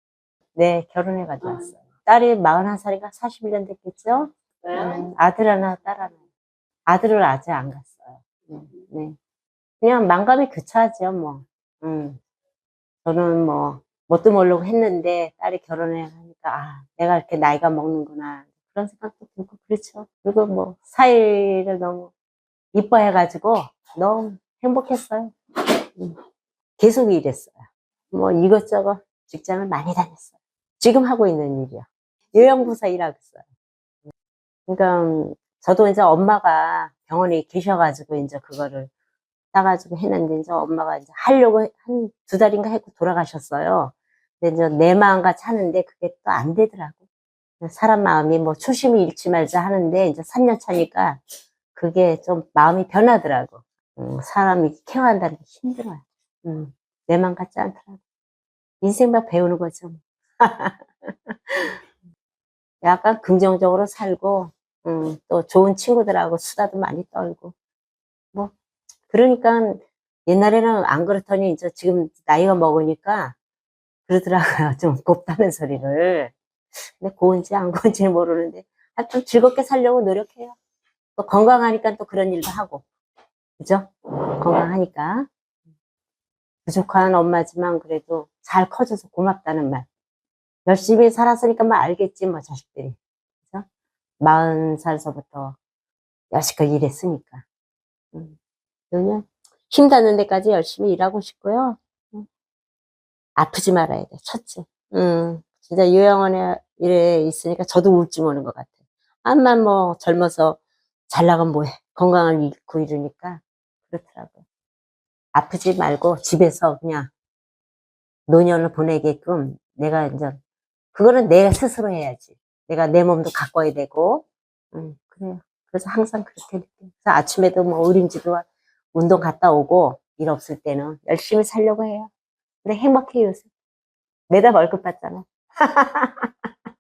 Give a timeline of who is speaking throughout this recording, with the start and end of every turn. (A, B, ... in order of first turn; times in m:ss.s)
0:00.5-0:06.2 A
0:06.9-0:09.2 A
0:09.8-0:12.2 A
0:13.0-0:22.1 A
0:22.7-0:25.3 A
0:26.8-0:33.4 A
0:34.7-0:38.9 A
0:39.5-0:47.0 A
0:47.6-0:51.2 A
0:51.7-0:58.0 A
0:58.8-1:01.8 A
1:02.8-1:07.5 A
1:09.1-1:13.3 A
1:14.1-1:16.3 A
1:16.9-1:20.6 A
1:21.2-1:22.8 A
1:23.6-1:25.3 A
1:26.6-1:29.8 A
1:30.6-1:33.6 A
1:34.2-1:35.6 A
1:36.3-1:37.4 A
1:38.9-1:42.2 A
1:43.4-1:54.4 A
1:55.3-1:57.1 A
1:58.3-2:00.4 A
2:00.9-2:12.1 A
2:12.6-2:13.5 A
2:14.3-2:16.3 A